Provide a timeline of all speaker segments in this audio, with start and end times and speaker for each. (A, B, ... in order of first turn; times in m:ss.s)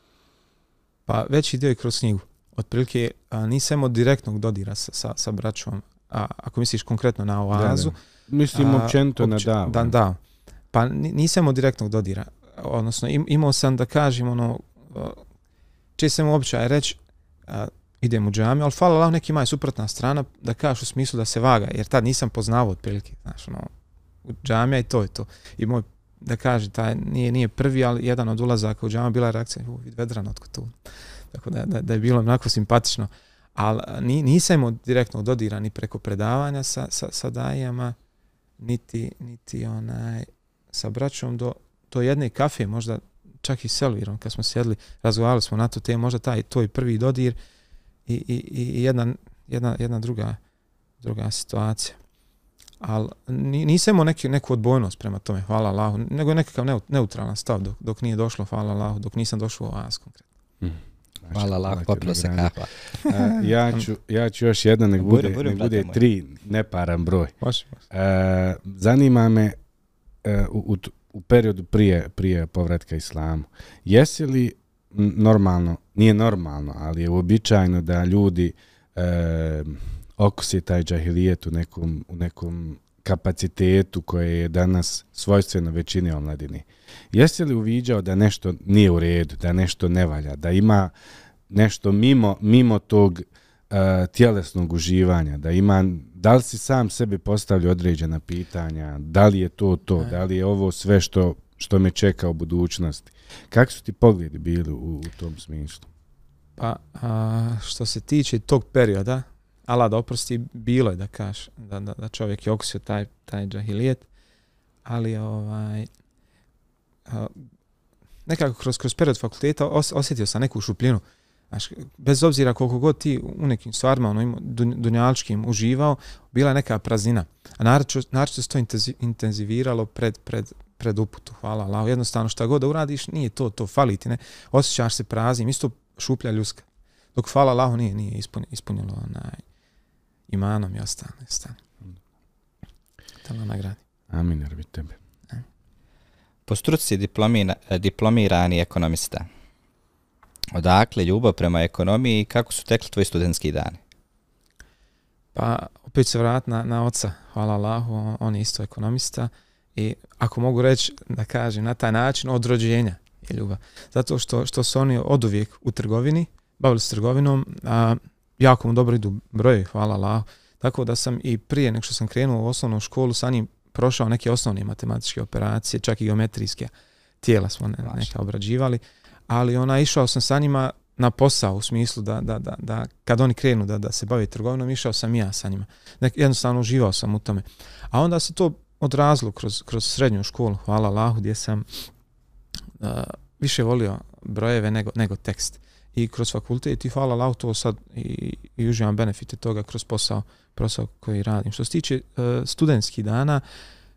0:01.1-0:08.0 A
0:07.5-0:09.9 B
0:08.5-0:10.2 A
0:10.7-0:15.2 A
0:16.0-0:23.7 A
0:24.2-0:30.7 A
0:31.3-0:38.0 A
0:38.6-0:47.4 A
0:48.0-0:50.4 A
0:51.0-0:52.0 A
0:52.8-1:00.2 A
1:00.6-1:07.3 B
1:01.3-1:02.7 C
1:05.0-1:06.0 C
1:07.4-1:07.8 A
1:07.9-1:09.6 B
1:10.2-1:30.9 B
1:31.5-1:45.8 B
1:46.6-1:54.1 A
1:54.8-1:55.9 A
1:57.1-1:57.4 A
1:58.2-2:19.4 A
2:20.3-2:21.6 A
2:23.2-2:23.8 A
2:24.1-2:25.0 B
2:26.5-2:29.3 C
2:30.5-2:33.8 C
2:35.3-3:11.8 A
3:12.8-3:23.4 A